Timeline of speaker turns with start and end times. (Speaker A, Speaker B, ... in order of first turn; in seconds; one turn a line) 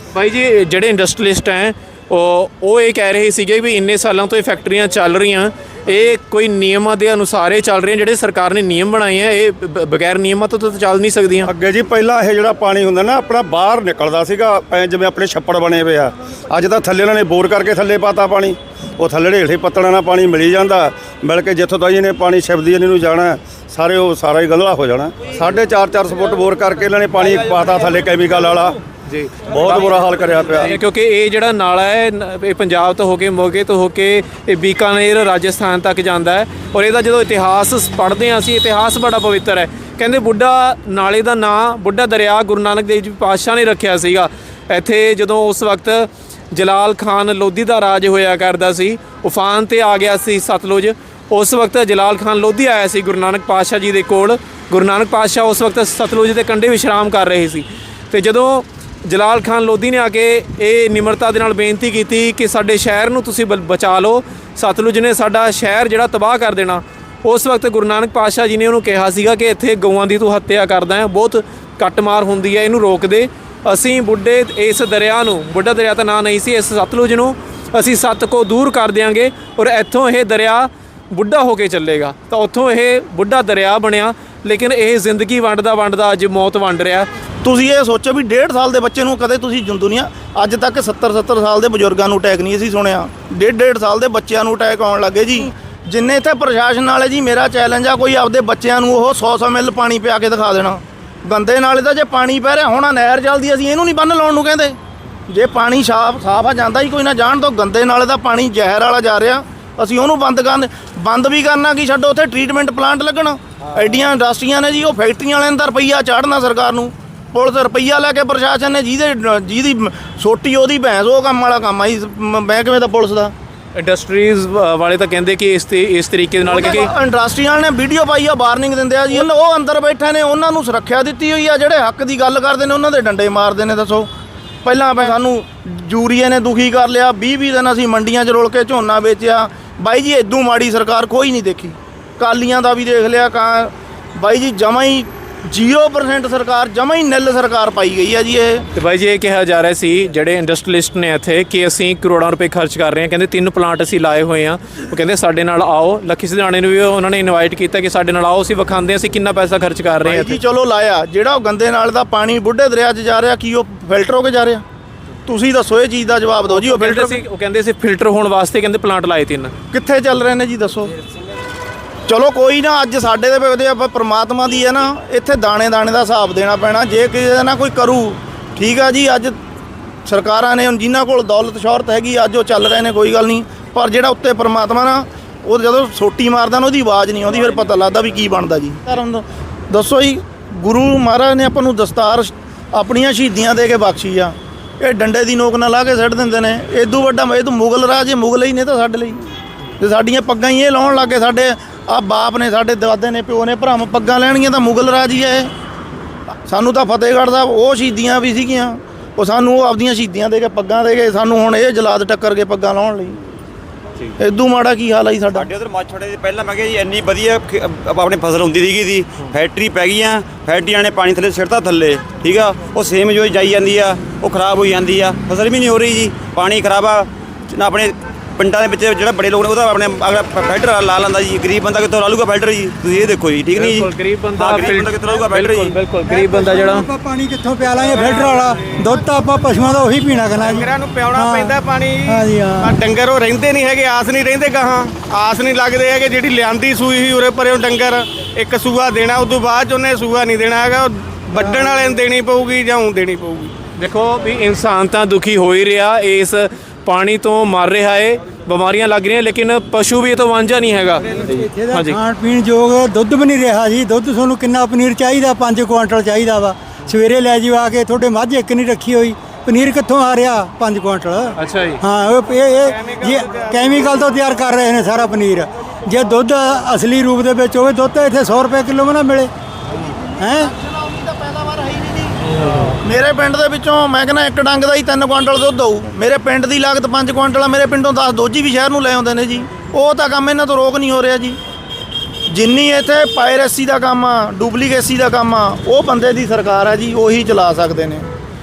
Speaker A: 0.1-11.5
Speaker B: 11.4-28.8
Speaker A: 29.1-30.0
Speaker B: 29.4-30.7
Speaker A: 30.6-87.1
Speaker C: 87.4-104.8
Speaker C: 105.3-123.3
Speaker A: 123.7-126.9
Speaker C: 126.4-134.1
Speaker C: 134.6-148.7
Speaker A: 148.8-160.4
Speaker C: 160.0-164.6
Speaker C: 165.3-167.2
Speaker A: 166.5-169.5
Speaker C: 169.7-170.9
Speaker C: 172.1-179.3
Speaker C: 180.1-199.2
Speaker C: 199.8-205.5
Speaker C: 206.5-213.2
Speaker C: 214.2-215.5
Speaker D: 215.3-235.8
Speaker A: 233.5-236.9
Speaker E: 236.1-242.8
Speaker F: 240.5-253.5
Speaker E: 251.3-251.8
Speaker A: 253.7-262.0
Speaker E: 261.1-279.3
Speaker A: 271.4-271.8
Speaker C: 279.8-291.4
Speaker E: 280.2-280.5
Speaker C: 292.3-298.1